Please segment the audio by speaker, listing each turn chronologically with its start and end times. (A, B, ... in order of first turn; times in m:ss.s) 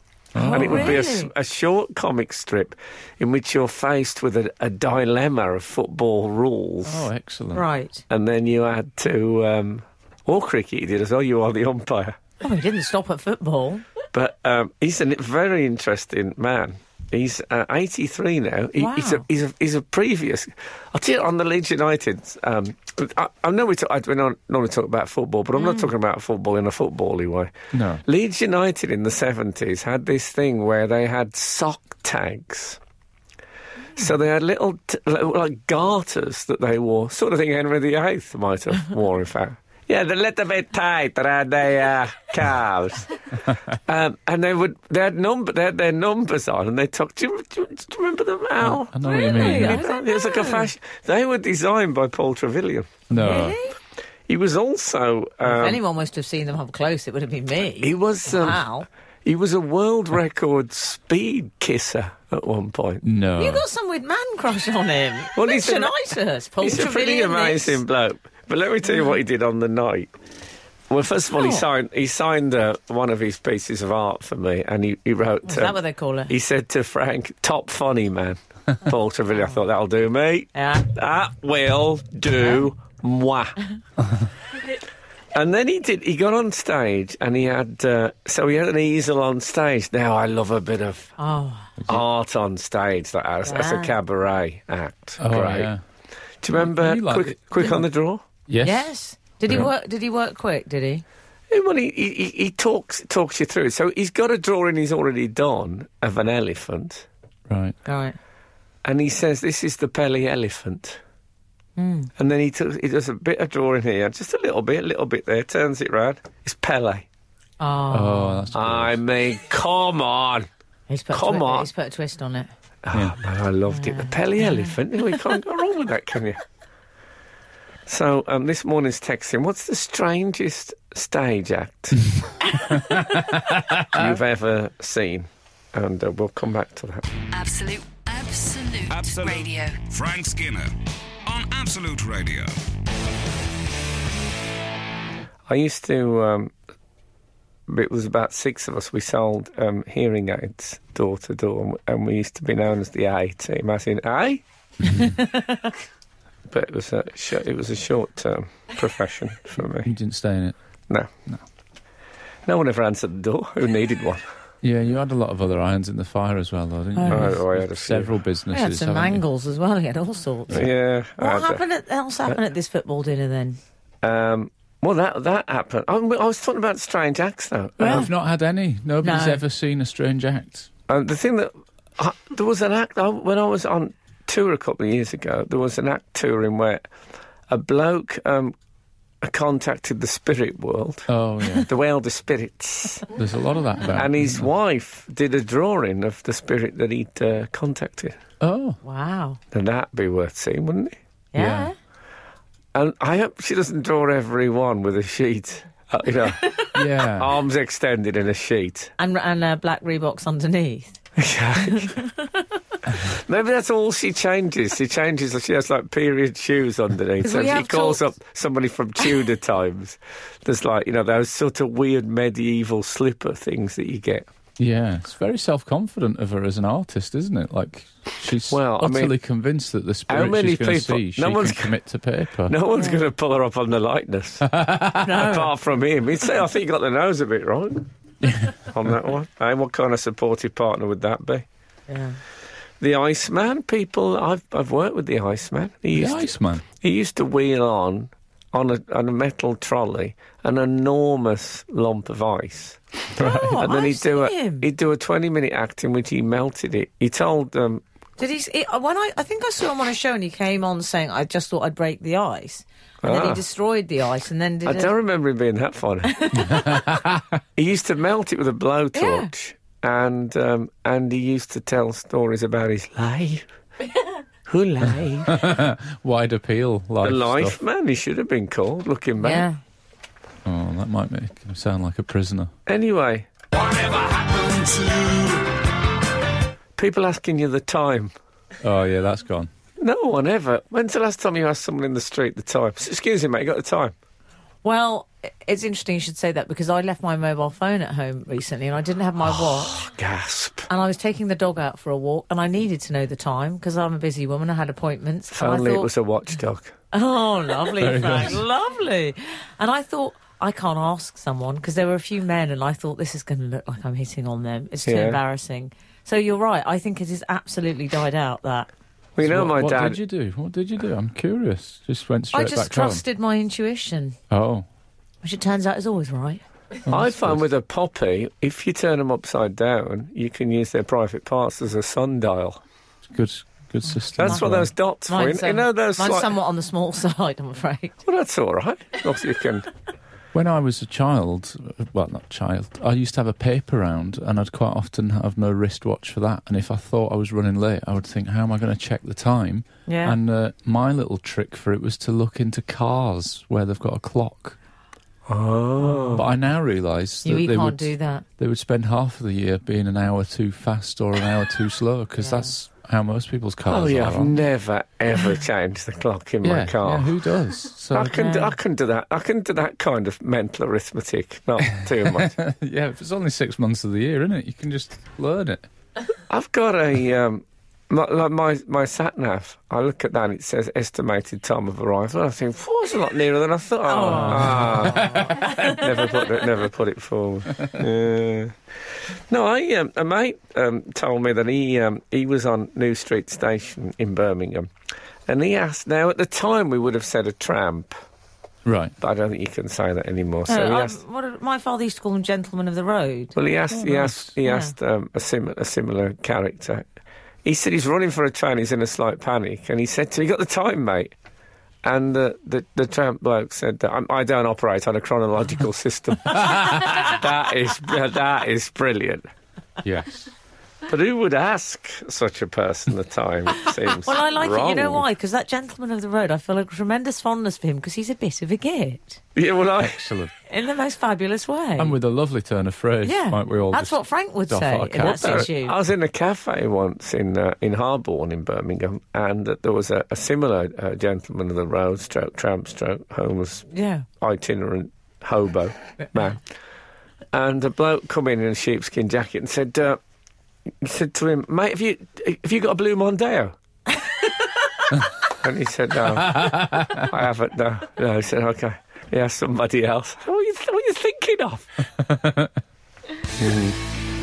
0:00.3-0:01.0 A
0:00.4-0:01.3 B
0:00.5-0:07.1 C
0:06.8-0:07.6 A
0:07.5-0:08.0 B
0:08.1-0:12.2 C
0:12.4-0:13.8 B
0:14.1-0:32.8 C
0:18.8-0:19.3 B
0:25.6-0:25.9 B
0:27.7-0:28.0 A
0:34.0-0:43.2 C
0:43.7-0:53.1 C
0:48.6-0:49.9 A
0:49.0-0:50.7 B
0:53.1-0:53.6 A
0:53.1-0:53.8 B
0:54.3-0:55.8 C
0:55.4-0:58.9 B
0:57.8-0:58.6 C
0:59.2-1:03.0 C
1:03.0-1:03.6 A
1:03.4-1:07.8 B
1:05.4-1:05.9 C
1:06.6-1:10.1 C
1:10.9-1:15.8 C
1:11.4-1:11.6 B
1:15.5-1:16.3 B
1:16.3-1:23.6 C
1:20.5-1:20.9 B
1:25.3-1:31.1 C
1:31.2-1:31.7 B
1:31.9-1:35.7 C
1:33.4-1:34.0 B
1:35.2-1:35.8 A
1:36.4-1:38.2 C
1:36.5-1:37.8 A
1:38.5-1:38.9 A
1:38.6-1:41.0 B
1:41.5-1:47.1 C
1:47.5-1:47.8 A
1:47.8-1:48.2 B
1:48.8-1:51.0 C
1:51.8-1:52.1 B
1:52.2-1:57.1 C
1:57.6-1:58.5 B
1:57.9-1:59.0 A
1:58.5-2:00.5 C
2:00.9-2:02.5 B
2:01.1-2:01.7 C
2:02.8-2:06.4 C
2:03.7-2:04.8 B
2:07.9-2:12.2 C
2:12.0-2:14.0 A
2:13.9-2:17.1 C
2:17.3-2:19.8 D
2:18.9-2:22.6 E
2:25.5-2:26.5 C
2:27.7-2:34.4 C
2:35.0-2:35.7 B
2:36.5-2:39.9 C
2:39.8-2:40.6 A
2:42.5-2:44.3 C
2:44.6-2:49.2 A
2:47.0-2:47.3 B
2:47.1-2:48.2 C
2:48.5-2:53.6 B
2:50.5-2:51.6 C
2:54.0-2:58.1 C
2:57.8-2:58.1 B
2:57.8-3:00.7 A
2:59.0-2:59.4 B
3:00.9-3:06.8 C
3:07.5-3:08.5 C
3:09.2-3:11.1 C
3:11.1-3:11.7 A
3:11.6-3:13.1 C
3:13.1-3:14.5 A
3:13.9-3:18.2 C
3:18.4-3:18.8 A
3:18.8-3:19.4 B
3:19.5-3:21.0 C
3:21.3-3:21.8 B
3:21.4-3:21.7 A
3:22.7-3:28.9 C
3:26.4-3:26.7 B
3:26.7-3:27.3 A
3:29.0-3:31.0 B
3:31.2-3:32.0 C
3:31.6-3:32.5 B
3:33.0-3:44.3 C
3:37.2-3:38.1 B
3:44.6-3:52.6 A
3:48.5-3:49.2 C
3:50.1-3:51.7 C
3:52.5-3:54.5 C
3:52.8-3:53.0 B
3:54.5-3:55.1 A
3:55.0-3:55.5 B
3:55.1-3:57.9 C
3:58.6-4:01.5 C
4:01.9-4:02.2 B
4:02.8-4:12.8 C
4:06.0-4:06.6 A
4:13.2-4:13.6 A
4:13.2-4:14.7 B
4:13.6-4:17.8 C
4:18.2-4:24.9 B
4:23.0-4:23.4 C
4:24.6-4:26.6 C
4:26.1-4:26.8 B
4:26.4-4:27.2 A
4:27.6-4:33.5 C
4:28.9-4:29.3 B
4:34.5-4:35.6 C
4:35.2-4:37.6 A
4:37.0-4:39.5 C
4:39.2-4:39.6 B
4:40.4-4:42.5 A
4:42.7-4:43.3 C
4:43.5-4:45.6 E
4:46.8-4:48.1 C
4:48.6-4:49.5 A
4:49.8-4:53.9 C
4:54.6-4:59.8 B
4:59.3-5:00.7 C
5:00.7-5:05.9 B
5:05.3-5:06.7 C
5:06.9-5:18.7 B
5:07.8-5:08.4 A
5:14.8-5:15.2 C
5:19.2-5:20.0 C
5:19.2-5:23.0 A
5:22.3-5:24.2 B
5:24.3-5:24.6 A
5:25.2-5:26.4 B
5:26.9-5:27.4 A
5:26.9-5:32.6 C
5:33.1-5:34.7 A
5:33.9-5:34.5 B
5:34.2-5:36.3 C
5:35.1-5:38.0 B
5:38.0-5:39.7 C
5:40.3-5:54.6 A
5:49.9-5:50.2 B
5:55.3-5:56.3 C
5:56.1-6:04.4 A
5:57.2-5:58.2 B
6:02.2-6:02.5 B
6:03.7-6:07.1 C
6:06.4-6:08.5 A
6:07.9-6:12.4 C
6:11.8-6:15.7 A
6:16.3-6:28.5 C
6:23.9-6:25.9 B
6:24.1-6:25.4 A
6:29.3-6:34.7 C
6:35.3-6:38.0 C
6:38.7-6:38.9 A
6:39.0-6:41.0 C
6:40.5-6:43.4 B
6:43.4-6:46.9 C
6:43.7-6:44.3 A
6:44.4-6:44.7 B
6:47.4-6:51.1 C
6:51.8-6:59.3 C
6:56.5-6:56.8 A
6:59.8-7:00.3 A
7:00.9-7:05.0 C
7:04.0-7:09.2 B
7:09.4-7:10.0 C
7:09.8-7:10.3 A
7:10.5-7:12.0 B
7:11.8-7:15.5 A
7:13.0-7:15.8 B
7:15.0-7:23.7 C
7:23.7-7:24.1 B
7:24.2-7:26.4 C
7:27.3-7:30.0 C
7:30.8-7:33.5 C
7:35.3-7:41.8 C
7:36.3-7:37.1 A
7:42.0-7:42.5 A
7:43.4-7:43.8 C